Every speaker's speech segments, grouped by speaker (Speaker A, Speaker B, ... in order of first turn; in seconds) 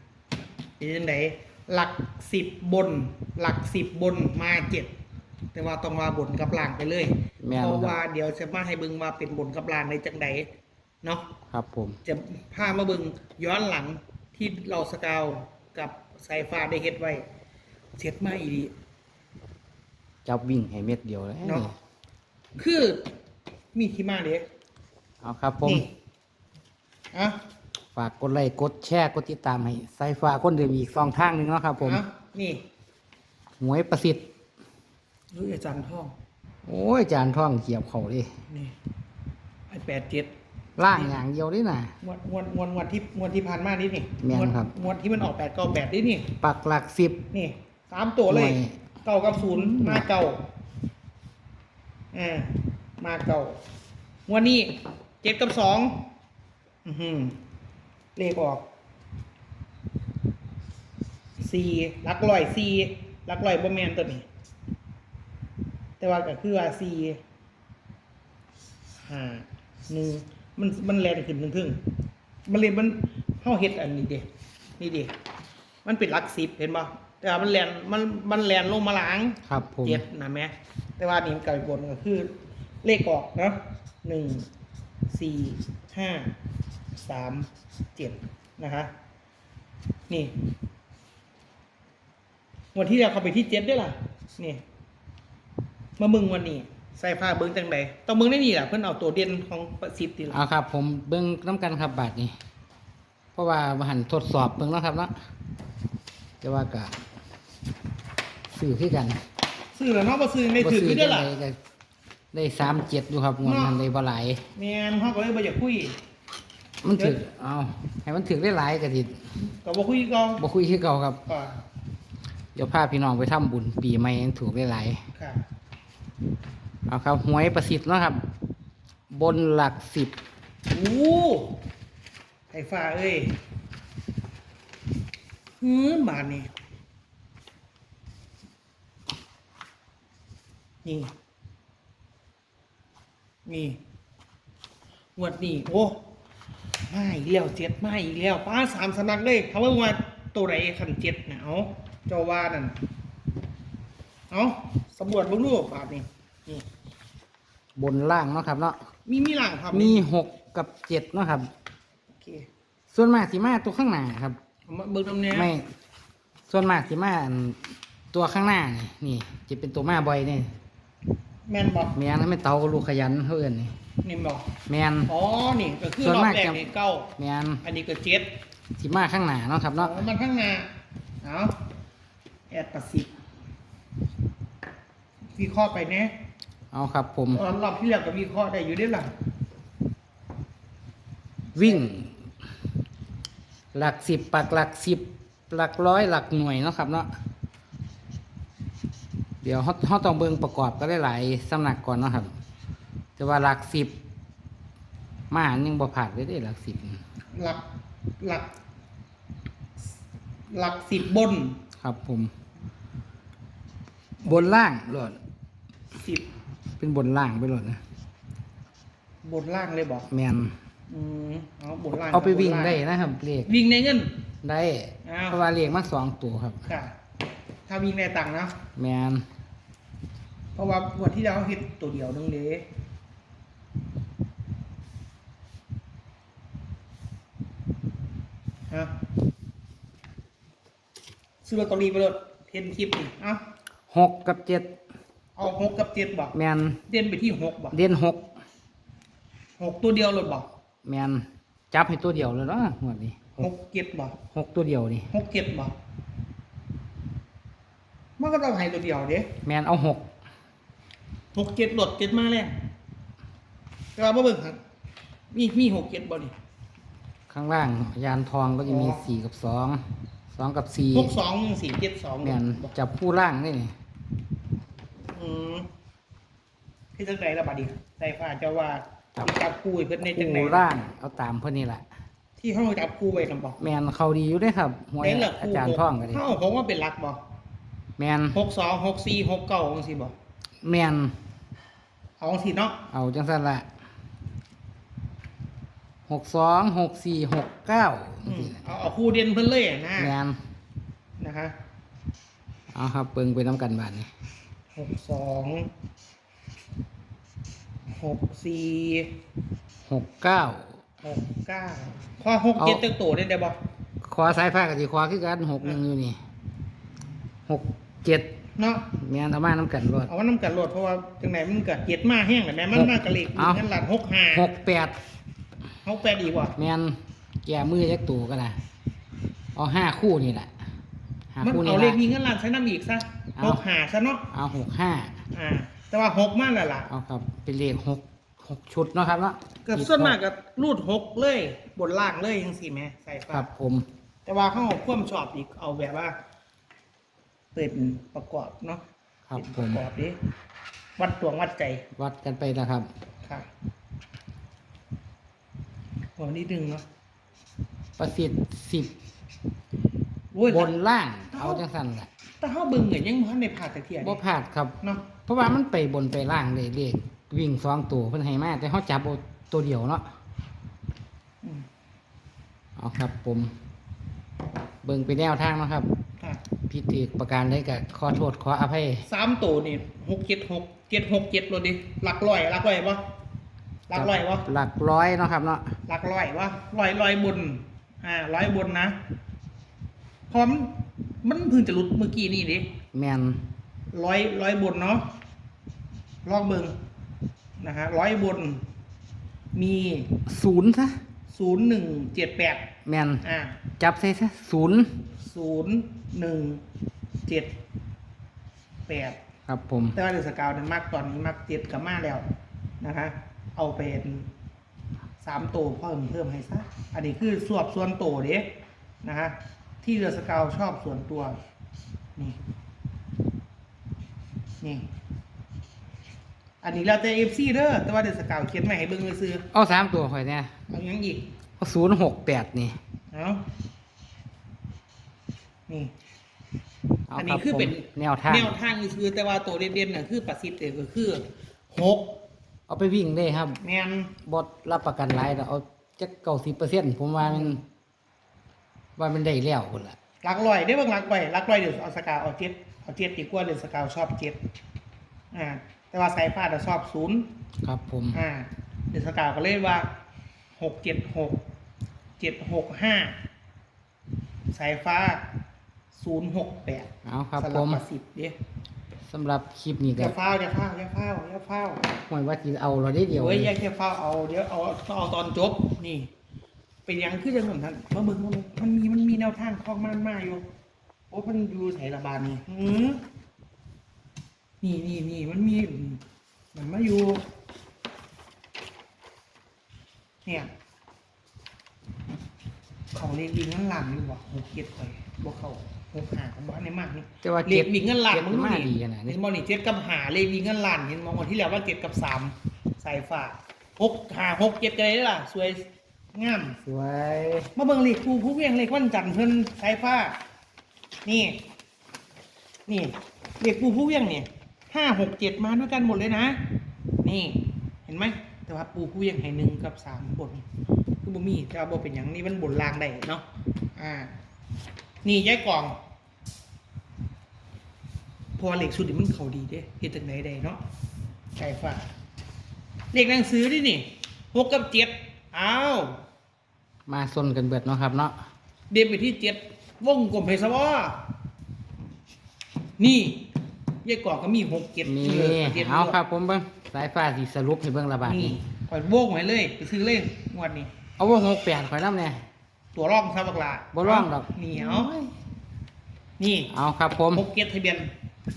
Speaker A: 0.8-4.9, 5.5-10.5, 11.0-11.3, 12.1-17.2, 18.0-18.7, 21.4-21.7, 22.6-23.1, 23.8-24.5, 25.6-25.9, 31.8-32.6, 35.3-36.1, 39.7-40.3, 40.8-41.2, 42.0-46.3, 47.3-50.4, 52.1-53.6, 54.3-56.1, 56.9-57.4, 58.2-58.7, 61.4-64.3, 66.0-67.2, 69.1-71.8, 72.5-74.3, 74.8-75.1, 75.8-84.5, 85.1-86.3, 87.0-88.9, 92.8-94.6, 96.0-100.4, 109.8-111.3, 113.4-113.8, 114.5-116.0, 119.4-120.4, 121.3-121.6, 125.2-125.4, 130.7-131.6, 132.5-133.4, 135.6-136.5, 140.8-141.1, 143.5-143.8, 145.2-146.0, 146.9-152.8, 154.3-156.6, 159.1-160.0, 162.2-162.5, 164.7-165.5, 171.5-172.0, 174.0-174.5, 175.1-178.3, 179.8-180.7, 181.2-181.6, 182.5-183.1, 185.4-186.1, 187.3-189.1, 191.6-191.9, 207.4-207.6, 208.2-208.5, 210.5-211.6, 216.0-216.3, 219.2-220.1, 220.9-222.8, 223.5-224.2, 225.0-225.4, 226.7-226.9, 227.7-228.6, 230.6-232.7, 241.4-243.4, 245.4-246.3, 246.9-247.8, 249.6-250.5, 253.4-254.2, 255.1-255.7, 258.2-259.3, 261.3-262.6, 264.0-264.6, 265.3-266.3, 268.6-269.0, 270.9-272.7, 275.1-275.7, 277.0-280.7, 282.4-283.6, 285.0-287.2, 288.3-290.1, 292.2-292.8, 298.2-300.1, 301.2-301.5, 304.8-305.7, 307.9-309.1, 311.0-313.6, 318.6-318.9, 320.1-324.5, 325.9-326.6, 331.4-334.3, 335.3-336.9, 339.7-343.5, 344.3-346.2, 347.6-348.8, 349.4-350.2, 351.0-351.8, 356.2-356.8, 360.3-360.7, 361.3-361.6, 362.4-364.2, 379.1-383.0, 383.9-384.5, 385.9-389.0, 390.3-392.7, 393.9-395.1, 396.2-396.8, 397.6-398.7, 399.6-400.2, 401.3-402.7, 403.2-403.6, 405.2-406.6, 407.3-407.5, 408.9-409.2, 409.9-412.3, 412.8-414.3, 415.2-421.4, 424.6-424.9, 426.6-429.5, 430.7-431.3, 433.1-433.5, 437.2-442.2, 443.6-444.1, 447.2-447.6, 450.2-454.4, 455.3-457.3, 458.1-459.9, 460.6-461.4, 462.2-463.1, 464.5-465.3, 465.9-468.4, 470.0-471.9, 473.1-476.1, 476.9-480.4, 481.1-483.0, 484.6-486.0, 486.5-487.2, 492.9-506.6, 507.6-510.2, 511.1-511.4, 512.7-516.4, 517.0-520.4, 521.0-523.2, 523.8-524.1, 525.0-525.8, 528.4-530.6, 531.4-531.9, 532.9-536.0, 538.7-541.0, 542.8-543.3, 543.8-546.0, 548.1-550.7, 552.8-554.9, 556.2-556.5, 557.1-557.9
Speaker B: 7.4-8.0, 11.5-12.0, 20.2-21.8, 25.2-25.8, 28.0-32.0, 33.6-34.2, 36.6-38.3, 40.8-42.0, 44.2-44.7, 46.4-47.2, 48.3-48.8, 49.6-50.1, 79.5-80.0, 100.3-102.3, 103.3-105.1, 106.4-106.9, 108.5-109.2, 110.6-111.6, 112.3-114.4, 116.8-119.2, 120.4-121.2, 122.5-125.0, 126.9-128.2, 129.1-130.2, 157.8-158.8, 159.7-161.5, 162.9-164.4, 165.3-165.7, 166.5-167.6, 168.1-170.5, 171.9-173.7, 174.7-175.1, 176.0-176.6, 177.2-177.6, 178.8-179.9, 186.7-187.4, 191.6-192.1, 193.7-197.1, 199.4-202.3, 203.2-203.9, 205.3-207.0, 211.8-212.3, 214.2-215.2, 216.8-217.8, 220.1-220.6, 222.1-223.5, 224.4-226.6, 228.8-229.3, 243.9-244.8, 246.3-246.8, 247.7-248.3, 250.8-253.5, 254.3-255.1, 259.4-260.1, 267.3-269.8, 270.3-271.1, 272.2-273.7, 280.0-281.9, 283.6-286.2, 288.0-288.4, 290.6-291.1, 292.9-293.7, 296.1-298.6, 300.0-300.4, 302.7-304.1, 309.9-310.7, 312.6-312.8, 314.0-316.2, 317.5-318.3, 318.9-320.1, 322.7-323.6, 324.3-325.0, 326.6-328.6, 329.6-330.5, 331.3-332.0, 334.3-335.1, 336.9-340.2, 343.3-343.9, 349.3-349.8, 352.0-352.9, 358.0-358.9, 360.5-362.1, 364.0-370.0, 372.8-373.5, 374.8-375.9, 376.7-379.0, 383.9-385.7, 392.9-393.4, 400.3-401.0, 402.9-403.2, 403.8-405.0, 409.5-410.0, 429.5-430.5, 431.6-432.8, 437.1-438.6, 442.7-443.6, 444.2-447.6, 449.0-450.0, 457.6-458.2, 467.1-467.8, 469.1-470.2, 472.1-473.5, 497.2-499.2, 506.6-507.5, 536.9-538.1, 544.8-548.4, 551.0-552.2, 553.7-555.1, 556.5-557.2